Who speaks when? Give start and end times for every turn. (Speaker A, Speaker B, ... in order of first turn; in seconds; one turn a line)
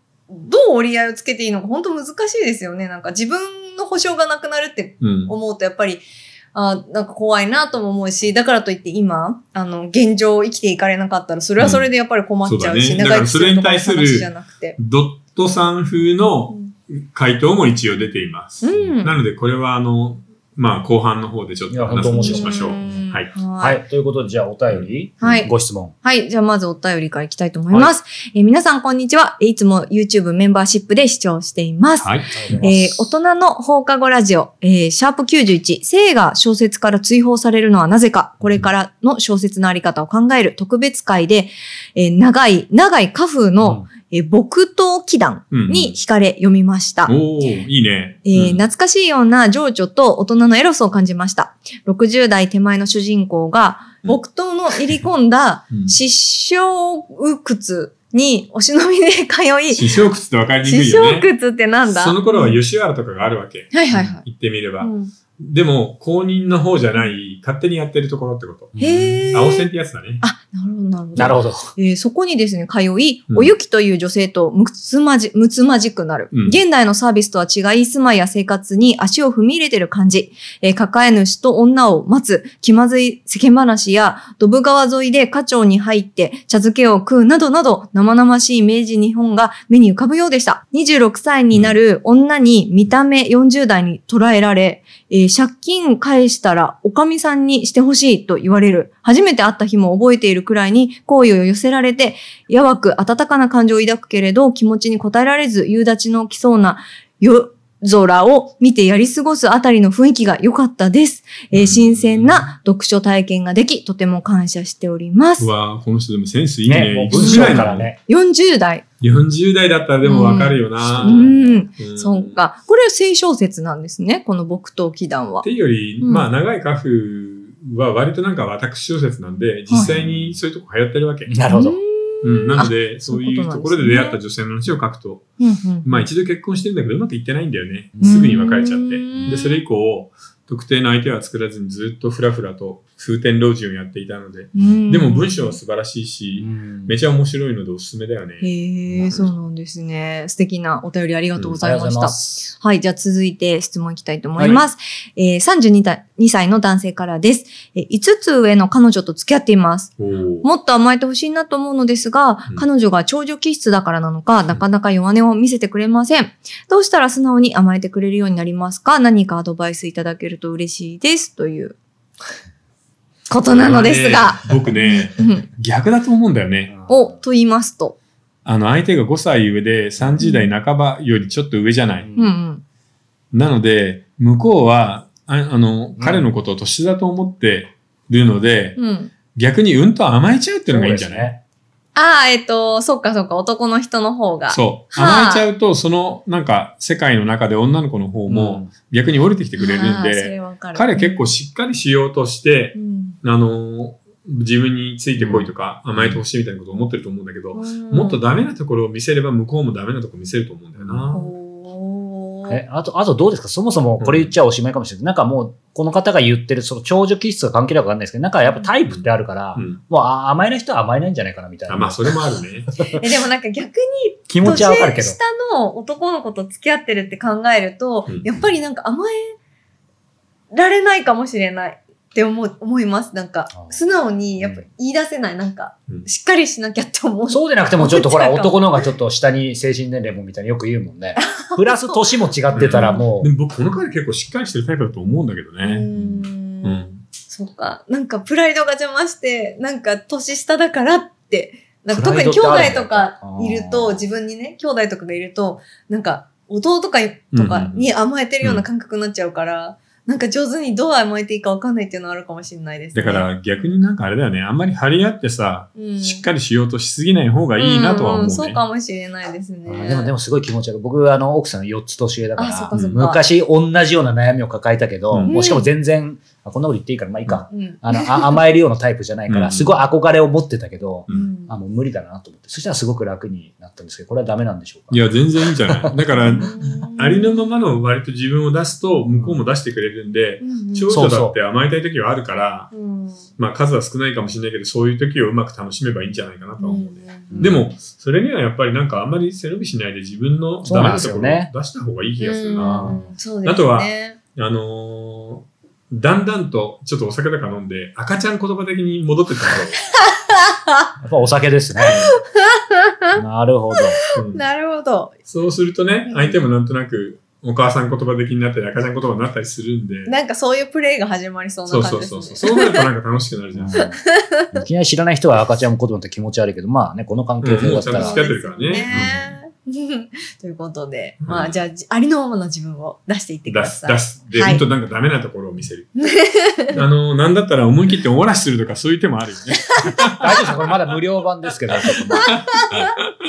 Speaker A: 0.3-14.8
Speaker B: 5.0-5.3
Speaker B: 11.6-11.9
Speaker B: 12.4-23.3
Speaker A: 18.6-19.2
Speaker C: 21.7-25.9
Speaker A: 22.1-23.8
Speaker B: 24.7-25.4
Speaker A: 25.2-25.5
Speaker A: 26.0-47.6
Speaker B: 32.0-32.3
Speaker C: 32.3-33.1
Speaker C: 43.6-43.9
Speaker B: 45.5-46.0
Speaker B: 47.1-48.6
Speaker A: 48.2-60.0
Speaker B: 55.7-56.0
Speaker B: 59.7-61.3
Speaker A: 60.6-62.6
Speaker B: 61.9-68.8
Speaker A: 63.7-64.2
Speaker A: 64.8-65.1
Speaker C: 68.7-69.3
Speaker A: 68.8-69.7
Speaker B: 69.3-70.2
Speaker A: 70.2-115.5
Speaker C: 71.2-71.7
Speaker B: 76.3-76.6
Speaker B: 91.5-91.8
Speaker B: 111.5-112.5
Speaker B: 115.4-117.9
Speaker C: 116.6-118.0
Speaker A: 117.1-118.8
Speaker B: 119.0-122.4
Speaker A: 120.0-125.5
Speaker C: 120.8-121.7
Speaker B: 125.4-131.3
Speaker A: 126.0-126.3
Speaker C: 129.7-130.4
Speaker C: 131.3-131.8
Speaker A: 131.5-134.2
Speaker B: 132.2-135.2
Speaker A: 135.4-136.1
Speaker B: 135.8-148.5
Speaker C: 138.0-138.3
Speaker A: 138.0-139.6
Speaker A: 144.6-145.6
Speaker C: 146.4-146.9
Speaker A: 148.4-171.8
Speaker C: 148.9-149.3
Speaker C: 151.6-152.5
Speaker C: 154.4-154.7
Speaker B: 160.0-160.5
Speaker A: 173.3-175.4
Speaker B: 173.5-176.8
Speaker C: 176.7-177.2
Speaker A: 176.9-178.0
Speaker B: 178.4-182.1
Speaker A: 180.2-180.5
Speaker C: 182.0-182.4
Speaker A: 182.2-182.6
Speaker B: 183.3-188.8
Speaker C: 186.0-186.3
Speaker A: 188.8-189.1
Speaker B: 189.3-191.3
Speaker C: 190.7-191.4
Speaker A: 191.9-195.5
Speaker B: 194.5-211.3
Speaker C: 198.3-198.7
Speaker A: 199.6-201.3
Speaker A: 202.8-203.2
Speaker C: 205.2-206.2
Speaker A: 207.5-208.3
Speaker C: 210.8-211.1
Speaker A: 211.1-212.6
Speaker C: 212.5-222.1
Speaker B: 214.0-214.3
Speaker A: 218.4-218.7
Speaker B: 218.8-219.8
Speaker B: 221.7-222.7
Speaker A: 222.9-229.3
Speaker C: 224.3-225.2
Speaker B: 228.1-228.3
Speaker A: 230.5-238.9
Speaker C: 234.4-234.7
Speaker C: 237.3-243.3
Speaker A: 241.2-243.1
Speaker B: 242.5-245.9
Speaker A: 245.6-263.3
Speaker B: 246.6-247.0
Speaker C: 251.9-254.1
Speaker B: 257.3-257.9
Speaker B: 262.9-268.6
Speaker A: 265.8-266.2
Speaker A: 267.6-270.1
Speaker C: 269.7-285.1
Speaker A: 272.4-273.2
Speaker A: 275.3-275.7
Speaker A: 277.5-278.4
Speaker B: 279.3-279.8
Speaker A: 281.1-281.6
Speaker B: 284.9-292.7
Speaker C: 285.6-286.5
Speaker A: 286.2-287.4
Speaker C: 289.1-289.4
Speaker A: 290.4-291.0
Speaker C: 290.9-291.4
Speaker A: 292.7-293.3
Speaker B: 293.4-309.8
Speaker A: 296.6-297.3
Speaker C: 297.3-297.7
Speaker C: 300.6-301.5
Speaker A: 302.2-304.2
Speaker C: 302.6-303.1
Speaker A: 310.0-310.8
Speaker C: 311.0-312.0
Speaker B: 311.8-312.1
Speaker A: 311.9-313.1
Speaker C: 313.1-314.0
Speaker A: 313.8-315.2
Speaker B: 314.1-314.4
Speaker B: 315.3-320.2
Speaker A: 316.1-316.4
Speaker A: 320.1-322.9
Speaker B: 321.7-323.8
Speaker C: 323.5-324.0
Speaker A: 323.7-324.6
Speaker C: 324.5-328.3
Speaker B: 327.4-329.1
Speaker A: 327.6-334.6
Speaker C: 328.9-329.4
Speaker B: 331.2-331.6
Speaker B: 333.5-335.9
Speaker A: 336.0-336.8
Speaker B: 336.7-340.5
Speaker C: 340.2-342.5
Speaker A: 342.1-342.9
Speaker B: 342.7-343.0